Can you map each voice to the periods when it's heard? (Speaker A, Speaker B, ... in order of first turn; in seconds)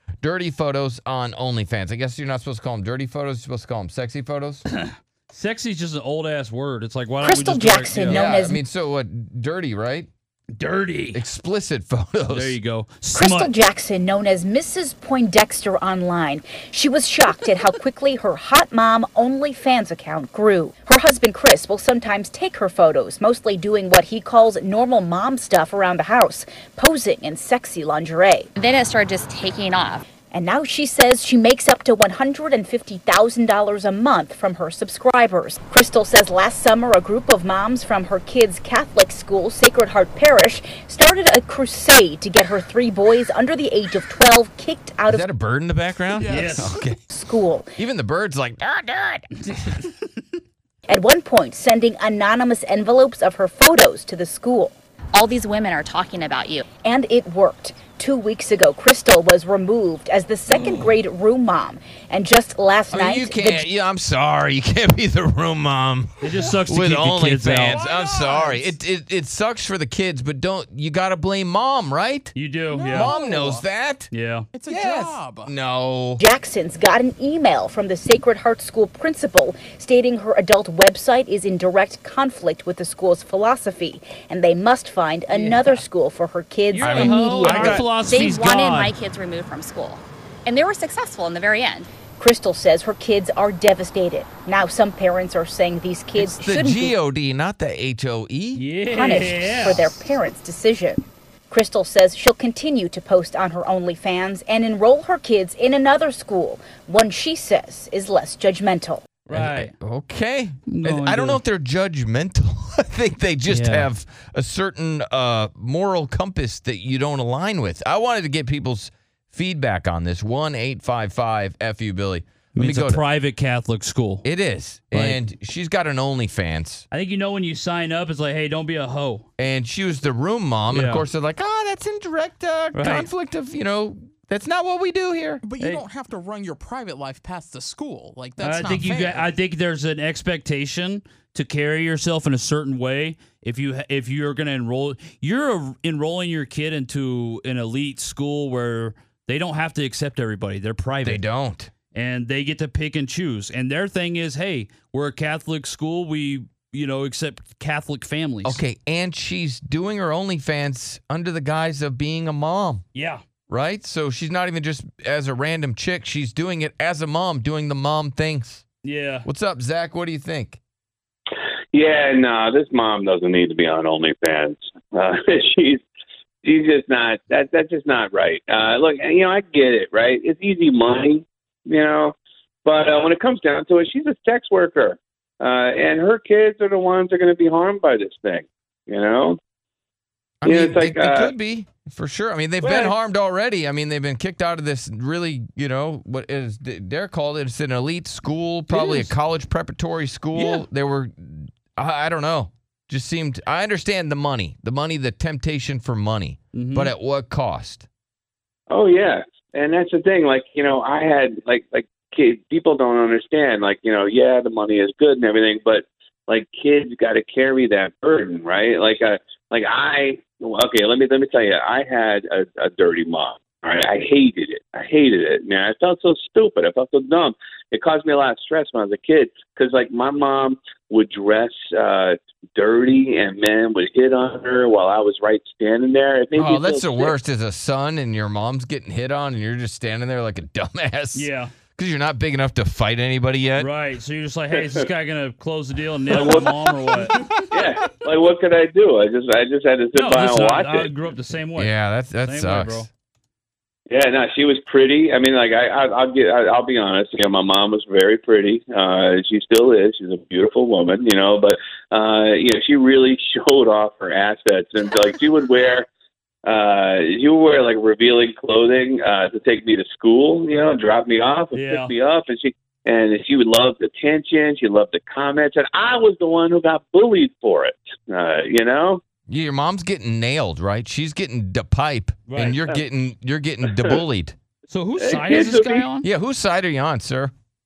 Speaker A: 0.2-4.6, 8.0-10.1, 11.1-12.6, 45.1-47.0, 47.8-49.3, 62.9-72.3, 72.9-74.1, 74.7-76.2, 86.8-87.9, 96.2-98.6, 109.3-123.0, 124.2-126.8, 129.4-135.4, 151.0-151.7, 158.4-162.8, 163.5-168.6, 169.2-170.6, 190.4-207.9, 236.3-243.7, 251.6-252.8, 279.3-284.4, 286.0-287.3
Speaker B: 4.7-8.2, 10.5-11.2, 12.3-13.5, 46.2-46.8, 49.5-49.9, 60.5-61.0, 66.2-67.8, 72.3-73.1, 74.1-74.5, 85.3-85.8, 86.7-88.9, 98.5-99.8, 109.2-109.7, 110.7-111.4, 113.5-113.9, 122.5-124.2, 124.9-125.2, 126.9-129.2, 130.7-131.1, 132.7-133.1, 135.6-135.8, 138.4-151.2, 151.9-158.6, 162.9-163.2, 168.8-169.3, 198.7-199.1, 200.4-200.6, 206.5-206.9, 241.1-241.5, 243.6-247.1, 249.9-252.9, 271.5-271.9, 282.3-282.7, 284.7-286.1
Speaker C: 7.2-8.6, 13.1-28.5, 30.3-45.3, 47.0-47.7, 50.9-54.8, 56.8-63.6, 76.2-87.7, 92.2-96.9, 98.9-109.0
Speaker D: 28.6-30.0, 55.1-56.6, 87.5-91.9
Speaker E: 67.8-68.7, 72.7-73.6, 74.5-75.5, 135.4-139.2
Speaker F: 171.7-175.8, 176.4-189.4, 190.4-191.3, 192.6-192.9, 208.7-237.2, 244.5-244.8, 246.1-246.5, 247.5-250.9, 253.9-265.9, 266.4-279.0, 283.7-284.0, 285.0-285.9